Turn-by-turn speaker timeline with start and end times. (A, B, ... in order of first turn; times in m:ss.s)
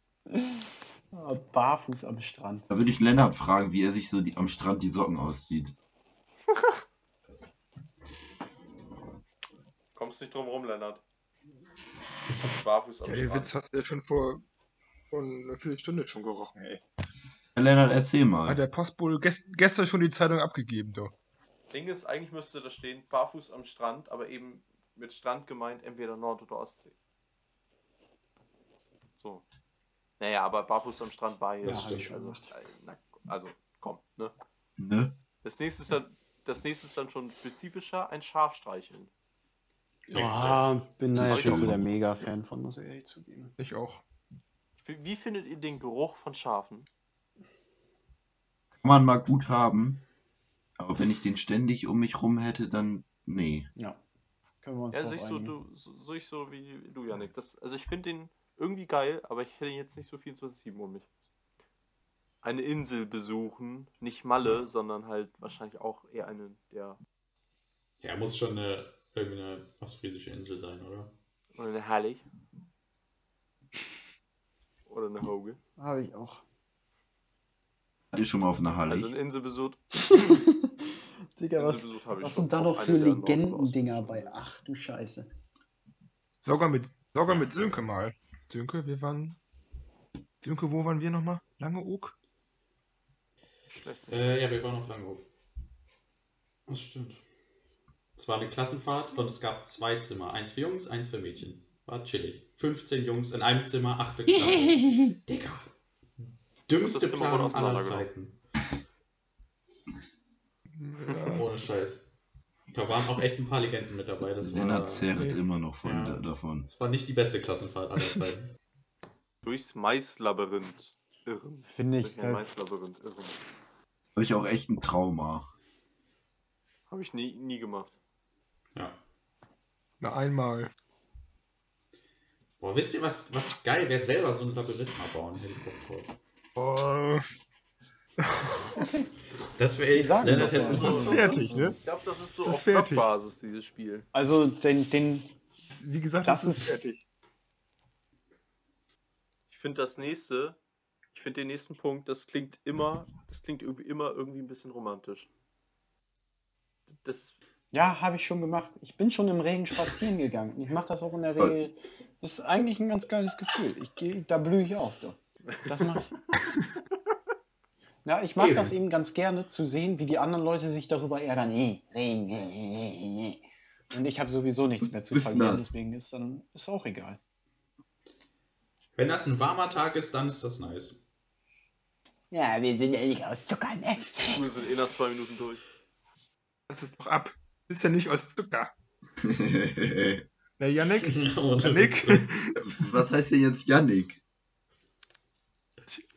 0:00.3-0:02.7 A
0:02.7-0:05.7 B
0:09.9-0:11.0 C
0:12.4-0:13.5 C
0:13.0-0:14.4 D
0:15.1-0:16.8 D
0:17.5-0:18.6 B
0:18.4-0:21.1 D
0:21.7-0:26.9 C
0:29.2-0:29.4 C
0:30.2-0:34.3 C
0:31.6-0:32.1 E
0:31.6-0:32.5 A
0:34.8-0:35.1 B
0:35.4-0:39.1 C
0:40.1-0:43.5 A
0:40.1-0:40.8 E
0:41.1-0:41.9 B
0:41.2-0:41.7 C
0:43.6-0:44.0 D
0:44.8-0:46.9 C
0:48.8-0:50.0 B
0:50.8-0:53.7 B
0:54.6-0:55.6 A
0:54.9-1:01.1 C
1:02.4-1:07.0 C
1:08.0-1:11.1 E
1:11.5-1:12.2 C
1:14.9-1:15.6 C
1:15.8-1:16.4 A
1:18.1-1:19.1 B
1:18.8-1:20.2 C
1:20.1-1:25.3 A
1:21.5-1:24.4 C
1:26.4-1:29.4 D
1:30.4-1:32.1 D
1:33.7-1:34.4 C
1:34.1-1:35.2 E
1:36.7-1:37.2 E
1:38.2-1:48.4 E
1:44.4-1:45.1 B
1:46.7-1:48.1 C
1:50.7-1:51.5 D
1:51.2-1:52.1 E
1:52.7-1:55.2 E
1:54.4-1:56.7 B
1:55.8-1:58.5 E
1:59.4-2:03.4 C
2:01.6-2:02.5 A
2:04.1-2:05.5 B
2:06.9-2:07.9 C
2:10.0-2:10.7 D
2:12.6-2:16.2 E
2:16.6-2:17.3 D
2:18.2-2:18.8 D
2:18.7-2:19.1 A
2:19.6-2:21.5 E
2:19.9-2:21.8 A
2:20.6-2:21.8 D
2:21.8-2:24.1 C
2:22.4-2:23.1 D
2:24.1-2:25.3 A
2:25.7-2:27.0 D
2:26.2-2:26.8 A
2:29.5-2:30.6 C
2:31.1-2:35.3 C
2:37.0-2:37.4 C
2:37.7-2:46.3 A
2:48.0-2:57.2 A
2:48.4-2:48.8 E
2:55.0-2:55.7 B
2:59.0-3:01.0 E
3:02.3-3:04.4 A
3:03.9-3:05.6 C
3:06.7-3:08.7 D
3:09.2-3:10.2 B
3:10.6-3:12.9 D
3:10.9-3:12.3 E
3:12.6-3:14.2 B